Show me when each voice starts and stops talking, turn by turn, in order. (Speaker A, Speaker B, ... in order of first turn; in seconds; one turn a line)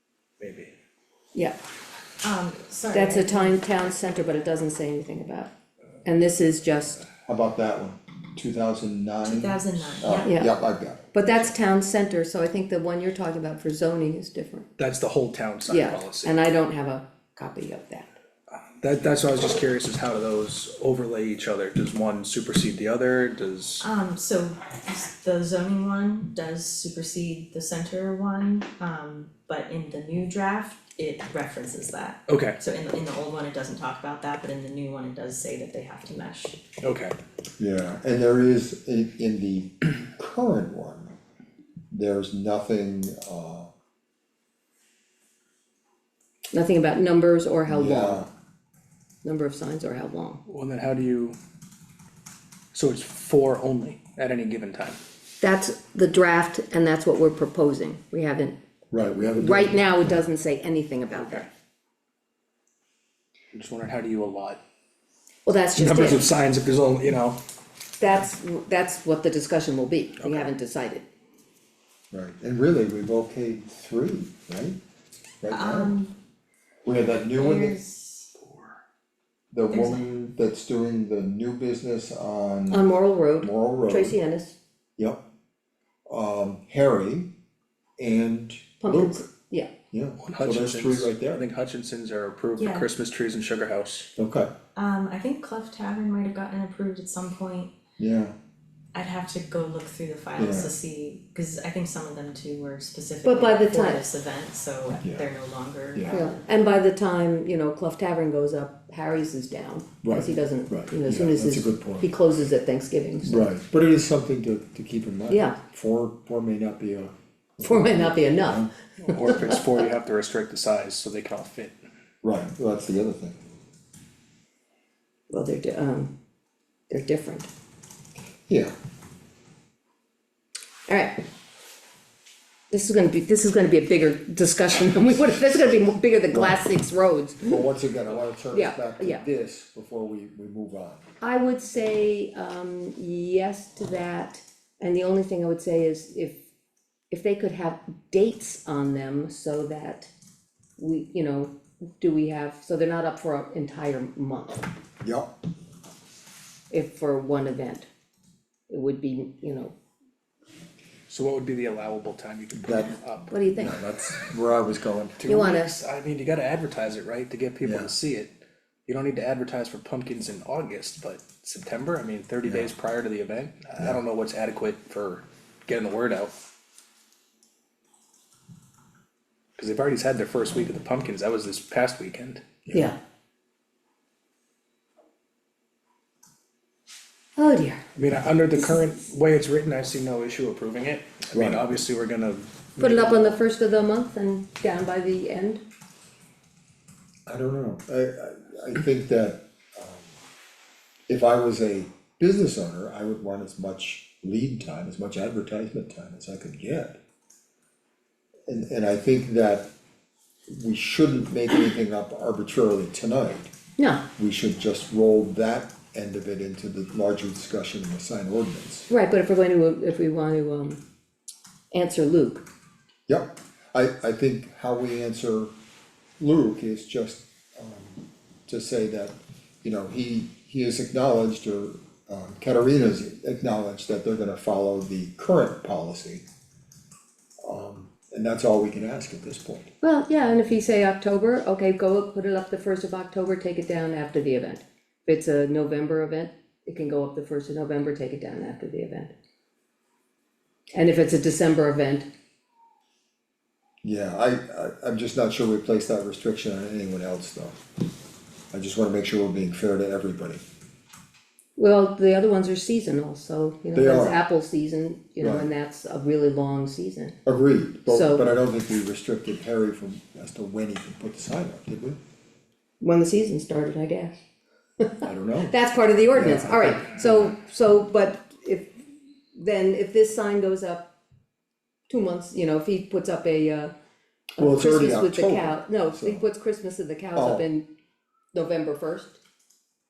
Speaker A: 0.4-0.7
Speaker B: 2.2-3.6
Speaker C: 2.9-5.5
Speaker C: 6.0-7.0
Speaker D: 7.2-11.2
Speaker B: 9.2-10.3
Speaker C: 10.2-10.5
Speaker C: 11.1-14.7
Speaker A: 14.8-16.3
Speaker C: 15.7-18.1
Speaker A: 18.6-23.8
Speaker B: 23.8-36.6
Speaker A: 32.3-32.6
Speaker A: 36.8-37.1
Speaker D: 37.6-41.1
Speaker D: 41.9-43.7
Speaker C: 46.5-48.2
Speaker D: 47.7-48.3
Speaker C: 49.2-50.4
Speaker A: 50.5-51.4
Speaker A: 52.7-55.0
Speaker C: 55.4-58.6
Speaker D: 58.9-60.2
Speaker C: 59.4-61.5
Speaker A: 61.1-61.5
Speaker A: 63.5-64.6
Speaker C: 65.5-66.2
Speaker A: 65.8-67.4
Speaker C: 68.0-71.1
Speaker A: 70.2-70.5
Speaker D: 72.1-74.8
Speaker D: 75.4-75.9
Speaker B: 75.5-76.1
Speaker D: 76.8-77.8
Speaker B: 77.3-78.3
Speaker A: 78.4-78.8
Speaker D: 79.5-84.2
Speaker B: 79.7-80.0
Speaker C: 82.7-84.5
Speaker D: 85.0-85.2
Speaker D: 86.1-87.3
Speaker D: 88.0-89.3
Speaker C: 88.8-89.7
Speaker D: 89.9-91.5
Speaker A: 90.2-94.1
Speaker B: 92.6-92.9
Speaker D: 94.2-94.5
Speaker B: 94.7-97.7
Speaker D: 98.0-98.3
Speaker B: 98.9-106.4
Speaker D: 100.4-100.7
Speaker C: 103.2-104.0
Speaker D: 105.0-105.3
Speaker D: 105.9-106.3
Speaker C: 106.1-113.5
Speaker D: 110.0-112.1
Speaker D: 113.2-118.7
Speaker C: 115.3-115.6
Speaker C: 117.6-119.5
Speaker A: 119.0-121.8
Speaker D: 122.2-123.4
Speaker C: 125.3-126.1
Speaker C: 126.9-127.5
Speaker D: 128.5-128.7
Speaker C: 130.9-131.2
Speaker C: 132.7-137.6
Speaker D: 136.3-136.6
Speaker D: 137.4-141.1
Speaker C: 138.5-139.2
Speaker C: 141.2-146.4
Speaker C: 147.1-150.1
Speaker C: 150.8-154.7
Speaker D: 155.0-155.3
Speaker C: 156.7-157.9
Speaker C: 158.7-159.7
Speaker A: 161.1-163.4
Speaker D: 162.6-162.9
Speaker C: 163.3-163.8
Speaker D: 163.5-165.2
Speaker A: 165.2-168.3
Speaker C: 165.3-165.7
Speaker D: 167.6-167.9
Speaker A: 168.8-176.3
Speaker D: 172.4-172.7
Speaker A: 179.6-182.5
Speaker C: 187.4-187.8
Speaker A: 187.9-193.4
Speaker D: 191.3-191.7
Speaker C: 192.8-195.6
Speaker D: 197.3-200.1
Speaker D: 201.1-207.0
Speaker D: 208.5-209.7
Speaker D: 210.5-213.5
Speaker C: 213.8-214.1
Speaker D: 214.2-218.9
Speaker C: 218.9-220.8
Speaker C: 221.7-222.5
Speaker D: 223.1-225.5
Speaker D: 226.2-236.2
Speaker D: 237.4-239.7
Speaker C: 239.8-249.1
Speaker C: 250.7-252.1
Speaker D: 253.8-257.6
Speaker D: 258.5-260.4
Speaker C: 261.6-267.2
Speaker D: 263.7-264.2
Speaker D: 265.2-265.5
Speaker D: 267.2-272.0
Speaker C: 267.9-268.2
Speaker C: 272.8-274.1
Speaker C: 274.8-278.8
Speaker D: 275.0-275.5
Speaker D: 276.1-277.3
Speaker C: 279.3-280.9
Speaker C: 281.9-283.7
Speaker C: 284.4-287.7
Speaker D: 284.4-286.2
Speaker D: 287.1-287.4
Speaker C: 288.3-289.2